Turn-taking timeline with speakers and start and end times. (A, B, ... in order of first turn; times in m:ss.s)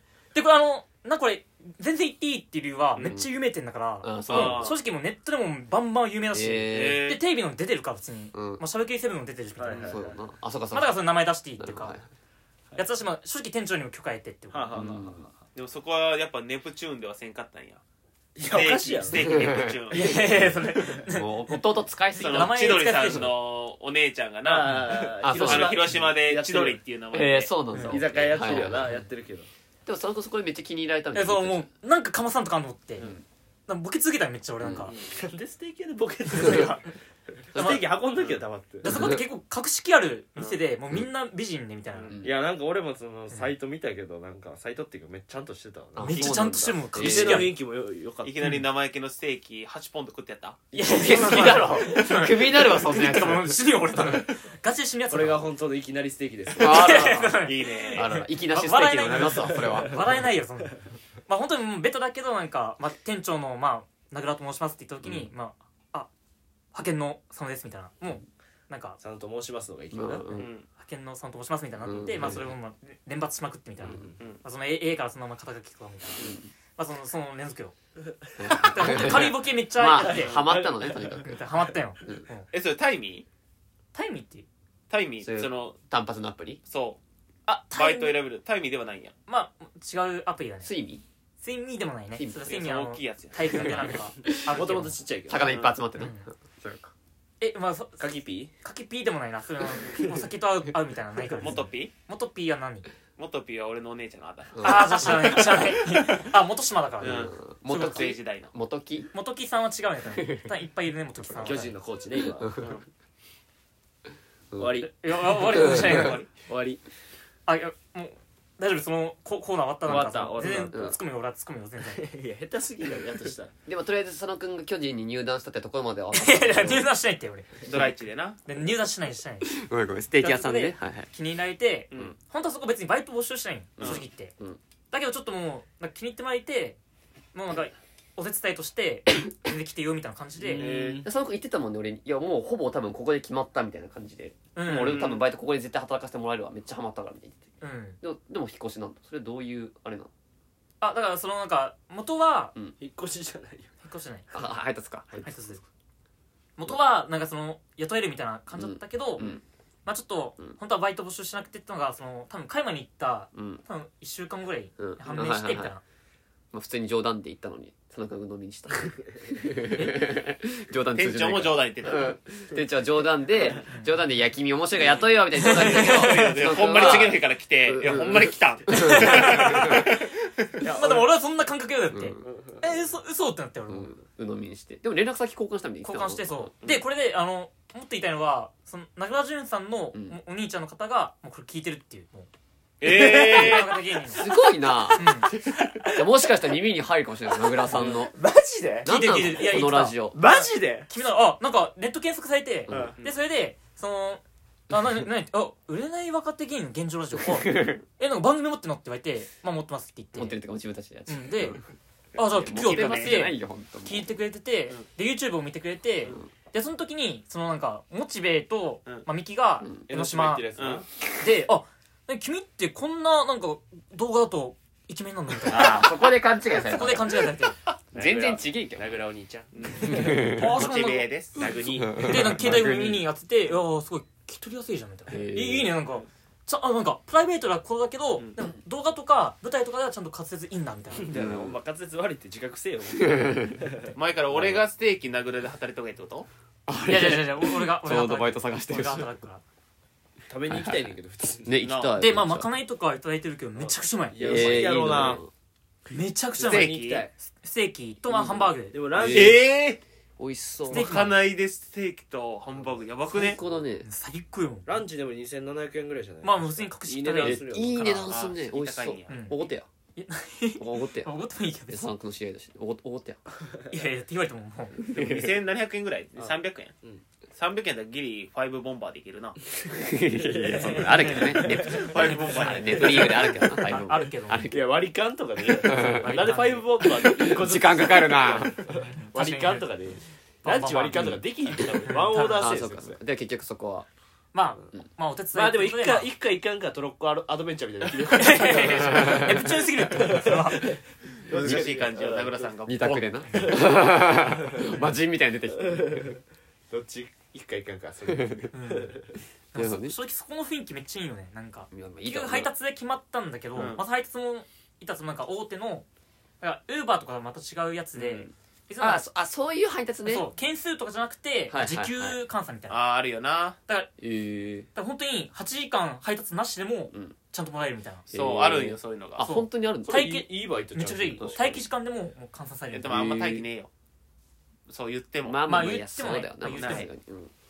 0:00.3-0:10.0 A
0:03.0-0:03.3 B
0:04.0-0:04.8 B
0:04.3-0:04.8 C
0:06.3-0:07.1 B
0:06.7-0:07.2 C
0:08.3-0:08.6 B
0:09.6-0:10.2 D
0:09.8-0:11.0 B
0:10.7-0:12.0 A
0:11.6-0:12.0 B
0:12.8-0:14.9 A
0:14.5-0:15.4 D
0:14.7-0:15.3 B
0:15.5-0:17.8 C
0:18.4-0:19.4 D
0:18.5-0:20.2 C
0:19.2-0:23.2 B
0:19.9-0:21.6 A
0:22.1-0:27.5 C
0:22.1-0:23.3 A
0:24.4-0:26.8 D
0:25.2-0:25.9 B
0:27.1-0:29.0 B
0:27.7-0:28.6 A
0:27.8-0:29.5 D
0:29.8-0:31.7 B
0:31.1-0:33.1 A
0:33.0-0:33.2 B
0:33.7-0:34.9 A
0:34.6-0:34.9 B
0:34.9-0:35.2 C
0:35.1-0:36.9 D
0:36.4-0:36.9 A
0:37.5-0:38.9 D
0:37.5-0:37.8 A
0:38.2-0:38.4 C
0:38.8-0:42.2 A
0:38.9-0:39.2 B
0:40.4-0:40.6 C
0:41.9-0:42.2 C
0:42.1-0:42.4 B
0:42.2-0:48.6 D
0:46.0-0:47.5 B
0:46.0-0:47.5 A
0:48.2-0:50.6 C
0:50.7-0:54.2 B
0:50.7-0:55.5 A
0:55.1-0:57.1 D
0:56.5-0:57.4 B
0:56.6-1:06.1 A
0:57.4-0:58.1 C
0:57.9-1:00.2 B
0:59.5-1:00.1 D
1:05.0-1:05.3 B
1:06.7-1:09.0 A
1:09.0-1:10.4 D
1:09.9-1:10.5 B
1:10.3-1:10.6 C
1:10.7-1:17.7 A
1:11.8-1:12.5 B
1:13.8-1:14.2 D
1:16.2-1:16.5 B
1:18.4-1:21.4 B
1:18.5-1:20.4 A
1:18.8-1:19.2 D
1:19.9-1:21.6 D
1:21.2-1:22.5 A
1:22.5-1:23.2 C
1:23.9-1:24.4 A
1:24.9-1:25.8 C
1:25.2-1:26.6 B
1:26.7-1:27.0 C
1:27.5-1:28.2 A
1:27.7-1:29.1 C
1:29.3-1:30.7 A
1:30.6-1:31.0 B
1:31.4-1:35.0 A
1:32.1-1:32.6 B
1:32.5-1:33.9 C
1:33.5-1:36.9 B
1:34.5-1:35.5 D
1:35.4-1:35.7 C
1:36.0-1:36.3 A
1:37.4-1:42.9 A
1:38.0-1:38.5 D
1:41.4-1:41.9 C
1:43.2-1:45.5 C
1:44.5-1:45.5 B
1:44.6-1:48.2 A
1:47.0-1:48.5 C
1:47.0-1:49.1 B
1:49.1-1:51.7 A
1:50.1-1:50.5 B
1:51.2-1:51.6 B
1:51.4-1:52.7 D
1:52.2-1:52.8 B
1:52.6-1:52.8 C
1:54.5-1:56.2 B
1:54.6-1:55.7 D
1:54.9-1:56.2 A
1:55.7-1:56.3 C
1:56.4-1:56.8 D
1:57.5-2:02.0 A
1:59.8-2:00.9 D
2:00.4-2:01.0 B
2:01.9-2:03.5 D
2:03.6-2:06.9 B
2:06.1-2:07.5 A
2:07.6-2:08.4 C
2:08.4-2:09.5 A
2:09.4-2:11.1 B
2:10.2-2:14.3 A
2:13.8-2:14.6 B
2:13.8-2:14.0 C
2:14.9-2:16.8 A
2:17.3-2:20.7 A
2:20.4-2:27.5 B
2:20.5-2:21.1 D
2:24.5-2:25.1 A
2:24.7-2:25.3 C
2:27.6-2:28.0 A
2:28.0-2:30.1 B
2:30.8-2:32.5 A
2:32.8-2:33.7 D
2:33.8-2:34.3 A
2:34.3-2:35.3 B
2:35.2-2:35.6 A
2:36.6-2:39.3 A
2:38.5-2:39.4 B
2:39.8-2:45.8 A
2:43.3-2:43.6 B
2:44.8-2:45.7 B
2:46.5-2:59.8 B
2:49.7-2:50.1 A
2:50.9-2:52.2 C
2:53.7-2:54.0 A
2:55.3-2:56.4 A
2:55.4-3:00.4 C
2:58.7-3:00.0 A
3:00.6-3:01.0 D
3:00.6-3:03.9 A
3:01.9-3:02.3 B
3:02.2-3:02.8 D
3:03.7-3:06.5 B
3:05.8-3:12.3 A
3:12.8-3:13.8 C
3:12.8-3:13.5 D
3:13.2-3:14.3 A
3:14.0-3:15.3 B
3:15.0-3:15.3 A
3:15.3-3:16.3 D
3:15.8-3:18.1 B
3:17.5-3:18.9 D
3:17.7-3:18.6 C
3:18.8-3:20.2 B
3:18.8-3:30.4 A
3:20.1-3:20.9 D
3:22.7-3:23.0 B
3:22.7-3:23.2 C
3:27.2-3:27.8 B
3:30.1-3:31.6 B
3:31.1-3:31.6 A
3:32.2-3:40.5 A
3:32.2-3:34.1 B
3:32.5-3:33.2 C
3:39.9-3:40.9 D
3:40.6-3:40.8 C
3:41.2-3:45.9 A
3:45.5-3:47.3 B
3:45.6-3:45.8 C
3:46.5-3:47.5 A
3:47.9-3:48.9 B
3:47.9-3:50.3 D
3:49.5-3:51.5 C
3:49.8-3:50.6 B
3:49.9-3:51.1 A
3:51.4-3:52.4 D
3:51.7-3:53.1 B
3:51.9-4:01.1 A
3:55.1-3:55.7 B
4:00.9-4:03.9 D
4:01.1-4:01.6 B
4:03.0-4:03.6 B
4:03.9-4:06.3 C
4:04.3-4:04.6 B
4:06.7-4:09.1 B
4:06.8-4:09.4 A
4:10.3-4:11.6 D
4:10.5-4:10.9 B
4:11.4-4:12.5 B
4:11.6-4:12.0 C
4:12.0-4:14.8 A
4:13.6-4:15.3 D
4:14.2-4:15.3 B
4:15.9-4:18.8 A
4:16.4-4:17.1 D
4:16.4-4:17.1 C
4:18.1-4:19.4 B
4:18.7-4:19.4 D
4:19.0-4:19.8 C
4:20.2-4:21.1 B
4:20.7-4:21.2 A
4:20.7-4:23.4 C
4:23.1-4:23.9 B
4:23.8-4:24.8 A
4:24.6-4:28.0 D
4:26.2-4:28.1 A
4:27.2-4:29.7 B
4:28.1-4:29.3 C
4:29.1-4:29.4 A
4:30.0-4:31.9 A
4:30.6-4:31.1 B
4:31.7-4:33.2 B
4:33.7-4:34.8 A
4:34.8-4:35.3 B
4:34.9-4:36.7 C
4:36.2-4:37.0 D
4:37.3-4:39.4 C
4:39.6-4:41.9 D
4:39.7-4:44.7 B
4:40.5-4:44.4 A
4:41.5-4:43.2 C
4:43.0-4:43.3 D
4:44.5-4:53.0 D
4:45.5-4:48.6 B
4:45.9-4:46.7 A
4:48.8-4:49.7 A
4:50.4-4:51.2 A
4:50.8-4:53.9 B
4:51.8-4:52.5 A
4:54.3-4:56.1 A
4:55.3-5:02.5 D
4:58.1-5:00.8 A
4:58.8-4:59.4 B
5:01.2-5:03.2 C
5:01.4-5:01.8 B
5:02.6-5:06.1 B
5:03.3-5:03.5 A
5:03.4-5:04.7 D
5:05.6-5:06.2 D
5:06.7-5:09.2 D
5:08.1-5:08.5 B
5:08.5-5:09.0 A
5:09.5-5:15.8 A
5:09.6-5:10.0 B
5:11.7-5:12.5 B
5:13.5-5:13.8 C
5:16.4-5:19.0 A
5:18.0-5:20.3 B
5:20.0-5:22.8 A
5:21.5-5:22.2 B
5:22.7-5:23.6 C
5:24.0-5:24.7 B
5:24.7-5:28.1 A
5:28.1-5:30.1 B
5:28.1-5:29.2 C
5:29.2-5:33.1 A
5:29.8-5:31.6 D
5:32.7-5:33.7 C
5:32.9-5:33.5 B
5:34.7-5:35.4 C
5:35.2-5:37.3 B
5:35.4-5:36.9 A
5:36.5-5:36.9 C